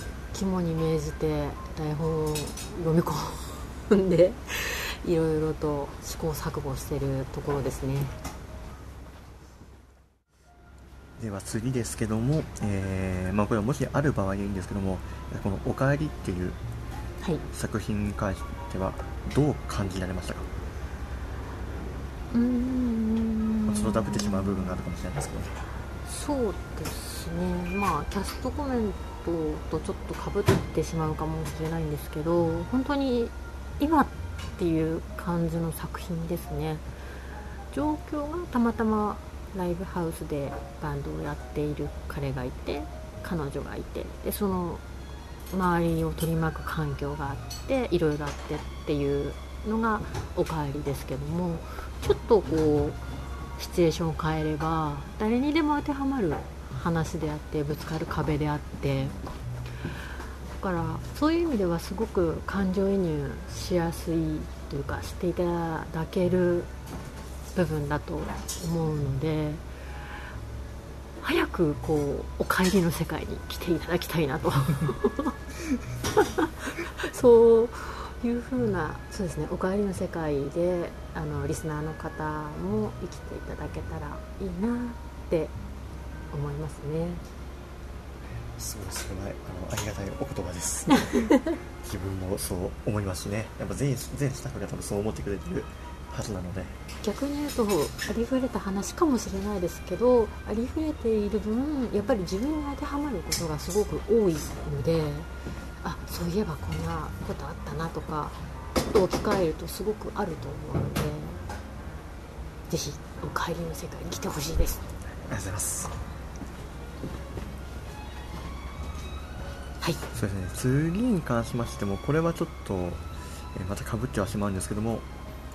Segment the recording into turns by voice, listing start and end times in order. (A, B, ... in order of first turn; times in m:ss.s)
0:00.3-0:08.1 A
0:11.2-0:16.6 B
0:17.5-0:20.5 B
0:22.3-0:24.8 A
0:23.7-0:25.6 B
0:26.1-0:36.8 A
0:37.7-0:44.8 A
0:45.5-0:53.0 A
0:53.6-0:59.1 A
1:00.6-1:06.7 A
1:07.6-1:09.6 A
1:11.2-1:15.4 A
1:16.2-1:25.5 A
1:26.3-1:27.2 A
1:28.6-1:31.3 B
1:30.9-1:31.4 A
1:31.8-1:36.8 B
1:37.0-1:45.3 A
1:45.8-1:48.4 A
1:48.9-1:51.4 A
1:52.7-1:54.8 A
1:55.2-1:55.9 B
2:00.1-2:05.1 B